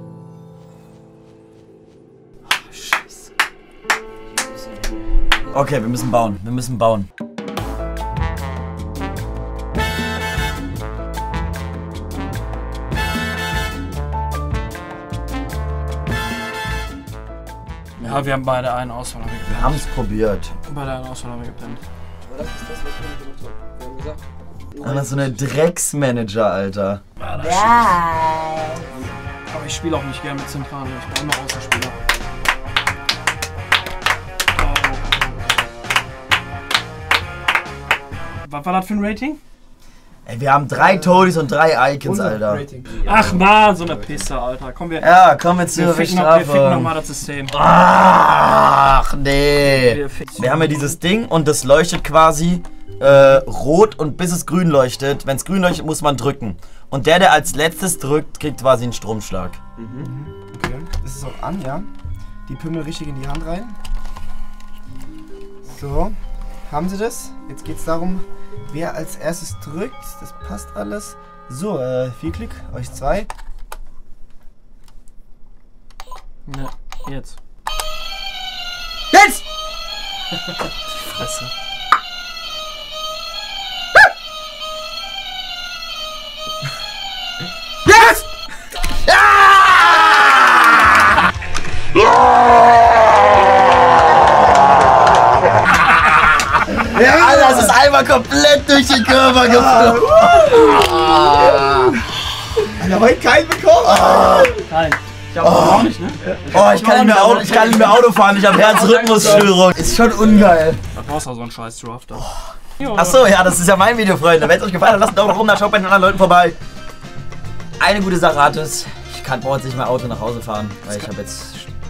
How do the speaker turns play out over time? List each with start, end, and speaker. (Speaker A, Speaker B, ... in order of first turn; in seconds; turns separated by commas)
Speaker A: 4.4-4.9, Speaker B: 5.5-7.1, Speaker C: 18.0-19.9, Speaker B: 19.5-20.5, Speaker C: 20.6-21.8, Speaker A: 22.2-24.2, Speaker B: 24.8-27.0, Speaker C: 24.8-25.4, Speaker C: 27.3-27.9, Speaker A: 27.6-28.4, Speaker C: 29.5-32.0, Speaker C: 34.5-35.6, Speaker C: 38.4-39.4, Speaker B: 40.3-42.6, Speaker D: 40.7-41.3, Speaker D: 42.0-44.2, Speaker C: 43.0-45.2, Speaker B: 45.0-46.9, Speaker C: 45.7-47.6, Speaker B: 47.5-59.6, Speaker C: 49.6-51.0, Speaker A: 59.8-60.1, Speaker D: 60.0-61.9, Speaker D: 62.5-63.7, Speaker D: 65.7-66.2, Speaker D: 66.7-73.3, Speaker C: 76.5-77.4, Speaker C: 79.1-79.4, Speaker C: 81.1-81.5, Speaker C: 87.9-88.2, Speaker B: 89.2-90.2, Speaker B: 96.7-103.0, Speaker D: 96.9-97.8, Speaker D: 99.5-100.8, Speaker D: 102.8-104.5, Speaker B: 103.8-104.7, Speaker C: 104.7-113.4, Speaker B: 105.4-110.8, Speaker B: 112.2-116.6, Speaker B: 117.8-121.7